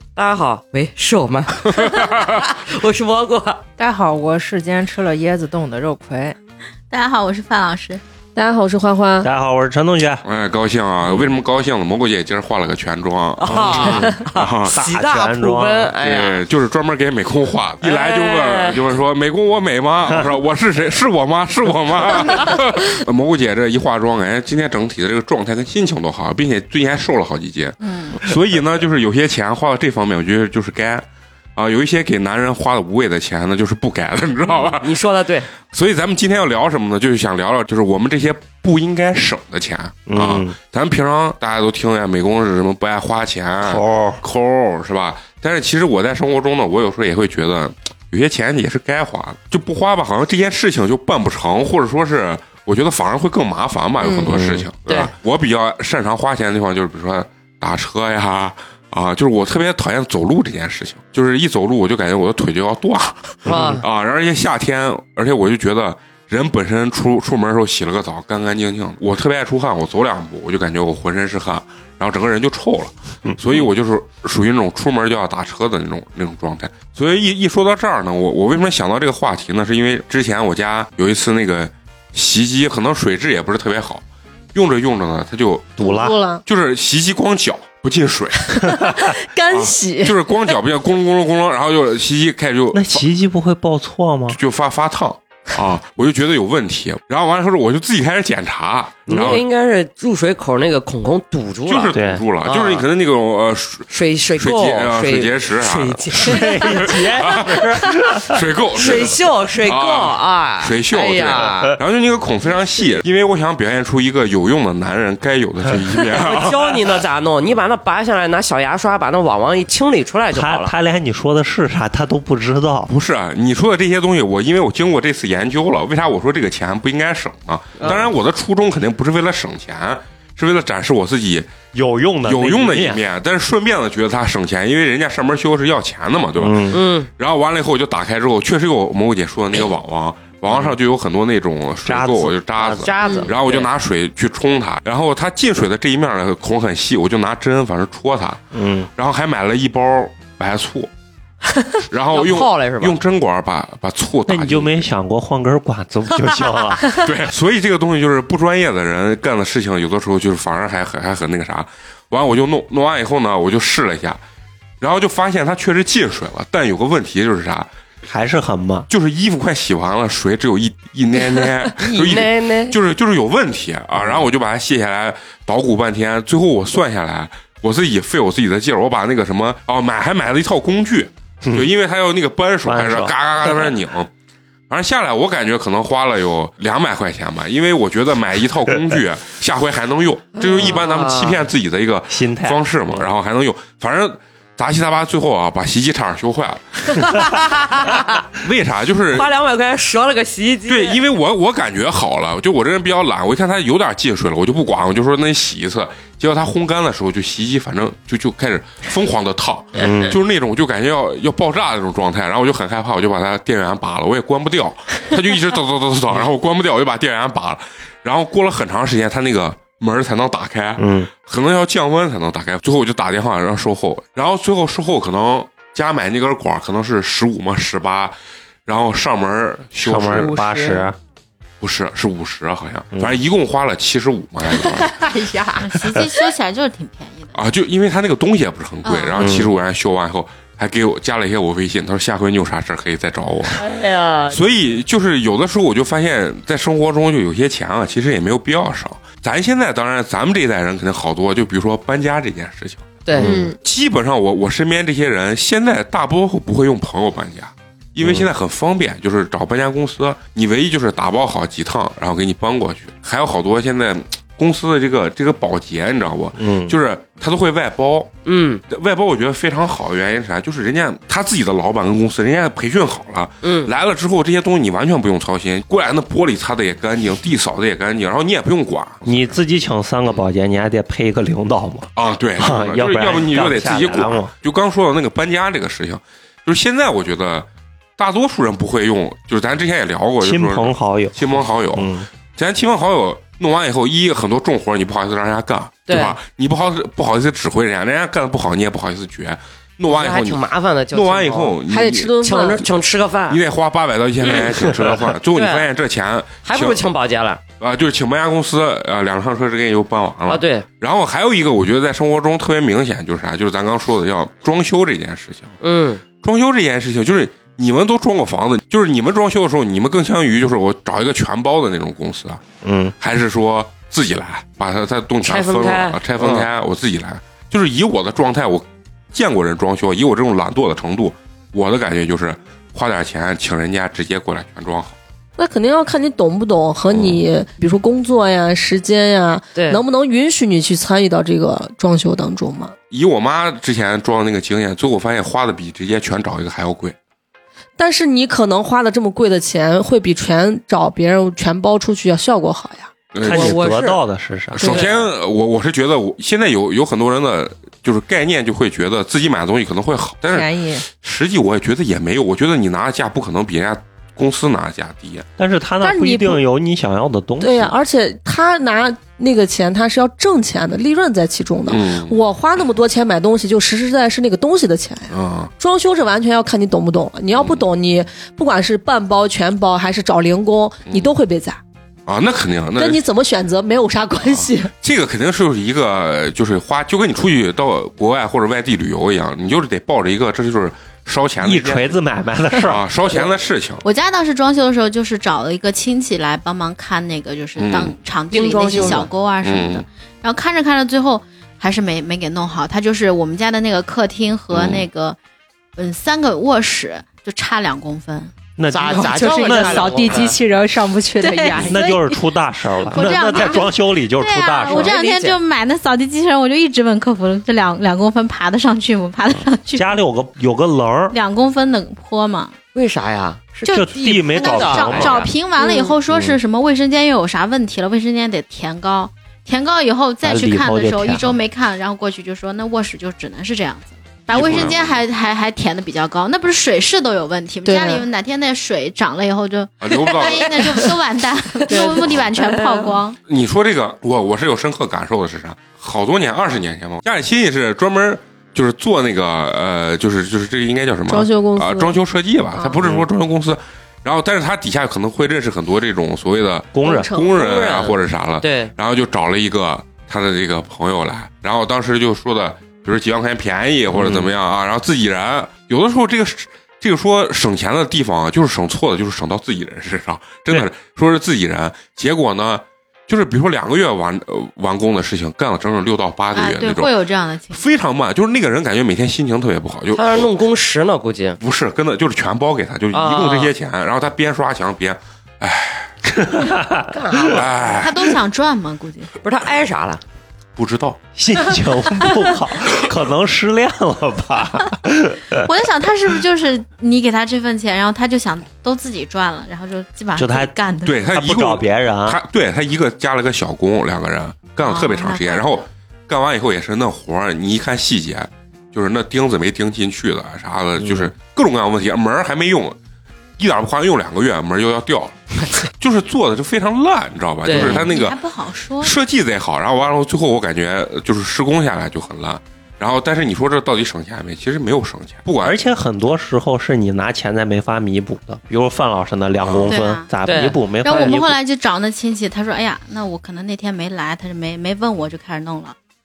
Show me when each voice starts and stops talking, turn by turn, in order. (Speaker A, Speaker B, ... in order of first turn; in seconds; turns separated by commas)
Speaker A: 0.2-3.6, Speaker B: 1.9-2.3, Speaker C: 3.8-6.4, Speaker D: 6.9-8.0, Speaker E: 8.3-9.3, Speaker F: 9.2-10.2, Speaker B: 10.2-14.8, Speaker A: 13.4-16.4, Speaker F: 14.7-15.9, Speaker B: 16.0-31.1, Speaker A: 17.8-18.8, Speaker D: 27.8-28.2, Speaker B: 31.6-35.0, Speaker A: 34.6-35.5, Speaker B: 35.6-85.9, Speaker F: 40.1-40.6, Speaker F: 43.6-44.2, Speaker E: 54.0-54.4, Speaker F: 54.2-54.7, Speaker A: 54.9-55.1, Speaker A: 63.5-63.8, Speaker F: 85.8-86.2, Speaker E: 85.8-86.4, Speaker B: 86.5-88.7, Speaker E: 88.5-90.3, Speaker B: 89.5-93.0, Speaker F: 92.7-94.4, Speaker B: 94.3-99.4, Speaker F: 99.1-99.4, Speaker A: 99.1-102.9, Speaker B: 101.7-107.6, Speaker F: 101.9-102.2, Speaker A: 103.9-108.2, Speaker F: 106.1-108.4, Speaker B: 108.2-116.7, Speaker A: 108.7-111.8, Speaker A: 116.2-120.7, Speaker F: 120.3-122.9, Speaker B: 122.9-131.6, Speaker A: 127.8-128.1, Speaker F: 131.7-133.0, Speaker B: 132.2-148.4, Speaker F: 136.4-136.8, Speaker A: 136.7-137.1, Speaker F: 140.5-140.8, Speaker F: 141.8-143.3, Speaker A: 142.7-143.7, Speaker F: 148.5-148.9, Speaker B: 149.0-150.9, Speaker B: 151.9-154.9, Speaker A: 152.1-153.0, Speaker F: 154.3-157.0, Speaker B: 156.9-164.2, Speaker B: 164.8-167.7, Speaker F: 168.1-168.9, Speaker B: 168.9-184.1, Speaker A: 171.8-172.8, Speaker F: 181.4-181.7, Speaker F: 182.7-183.6, Speaker B: 184.7-197.4, Speaker A: 190.4-191.5, Speaker F: 192.1-193.1, Speaker A: 197.0-198.2, Speaker B: 198.3-199.3, Speaker A: 199.1-201.0, Speaker B: 200.7-228.2, Speaker F: 209.8-210.2, Speaker F: 220.8-221.1, Speaker B: 228.7-230.8, Speaker F: 229.8-231.0, Speaker C: 230.1-230.6, Speaker B: 231.6-235.0, Speaker F: 232.9-233.2, Speaker C: 235.0-235.5, Speaker D: 235.6-237.4, Speaker B: 237.3-243.7, Speaker D: 238.8-239.2, Speaker F: 239.2-239.5, Speaker A: 243.6-244.4, Speaker B: 244.3-268.1, Speaker F: 253.2-253.5, Speaker E: 253.2-253.6, Speaker F: 258.0-258.3, Speaker F: 266.4-266.8, Speaker A: 268.3-268.6, Speaker B: 268.7-279.4, Speaker A: 273.4-273.7, Speaker F: 279.1-284.3, Speaker B: 282.0-287.5, Speaker B: 288.0-302.3, Speaker F: 290.2-292.1, Speaker A: 295.9-296.2, Speaker A: 299.9-301.6, Speaker E: 301.7-302.6, Speaker A: 302.2-303.4, Speaker B: 303.3-306.8, Speaker A: 304.2-305.7, Speaker A: 306.4-307.4, Speaker B: 307.6-315.6, Speaker A: 310.3-310.7, Speaker A: 315.6-316.0, Speaker B: 316.1-322.4, Speaker F: 322.6-322.9, Speaker B: 323.0-335.0, Speaker A: 325.2-326.0, Speaker F: 326.2-326.5, Speaker E: 335.4-342.8, Speaker B: 336.9-337.2, Speaker A: 339.5-339.8, Speaker B: 342.9-347.0, Speaker E: 347.8-352.9, Speaker B: 353.1-353.7, Speaker F: 353.2-354.8, Speaker A: 353.3-354.0, Speaker A: 354.6-355.1, Speaker B: 354.6-365.3, Speaker C: 360.3-360.9, Speaker F: 365.4-367.8, Speaker E: 365.8-366.4, Speaker E: 367.4-381.6, Speaker B: 371.7-372.2, Speaker B: 375.1-375.5, Speaker B: 377.4-377.6, Speaker B: 380.9-381.1, Speaker B: 382.1-383.0, Speaker E: 382.8-384.7, Speaker B: 384.2-392.0, Speaker F: 391.4-392.8, Speaker B: 392.6-393.9, Speaker D: 393.8-405.2, Speaker B: 397.6-397.9, Speaker C: 398.4-399.0, Speaker A: 398.5-399.1, Speaker B: 399.4-399.9, Speaker B: 404.5-404.9, Speaker D: 405.8-408.3, Speaker F: 408.6-410.1, Speaker A: 408.7-410.4, Speaker C: 408.8-412.0, Speaker D: 411.2-412.1, Speaker F: 411.6-415.0, Speaker D: 412.9-420.0, Speaker C: 413.0-413.6, Speaker A: 414.6-415.4, Speaker F: 419.8-421.1, Speaker D: 421.1-422.6, Speaker A: 422.7-425.3, Speaker D: 423.6-443.2, Speaker F: 423.7-425.3, Speaker E: 425.6-425.9, Speaker F: 426.1-426.4, Speaker F: 430.2-431.4, Speaker B: 434.3-435.0, Speaker E: 437.6-438.1, Speaker B: 439.8-440.6, Speaker E: 441.7-443.0, Speaker B: 443.3-476.9, Speaker E: 451.1-452.0, Speaker F: 456.7-457.2, Speaker D: 456.8-457.4, Speaker A: 457.4-458.7, Speaker F: 463.9-464.3, Speaker D: 476.3-477.7, Speaker B: 477.5-480.3, Speaker A: 479.9-481.4, Speaker B: 481.4-486.2, Speaker A: 482.9-483.5, Speaker F: 486.2-486.9, Speaker A: 486.9-487.5, Speaker B: 487.3-488.2, Speaker D: 487.6-489.1, Speaker A: 489.2-490.0, Speaker B: 490.6-491.0, Speaker F: 491.1-495.5, Speaker D: 495.4-501.0, Speaker F: 500.2-500.6, Speaker B: 500.9-512.8, Speaker F: 501.1-502.2, Speaker D: 504.6-505.7, Speaker F: 510.8-511.1, Speaker B: 513.4-515.2, Speaker B: 515.8-518.2, Speaker A: 517.4-517.8, Speaker F: 517.6-517.9, Speaker D: 517.6-519.0, Speaker B: 518.8-525.6, Speaker F: 525.4-531.4, Speaker B: 529.4-529.8, Speaker D: 529.7-530.1, Speaker A: 530.2-530.6, Speaker D: 530.8-535.8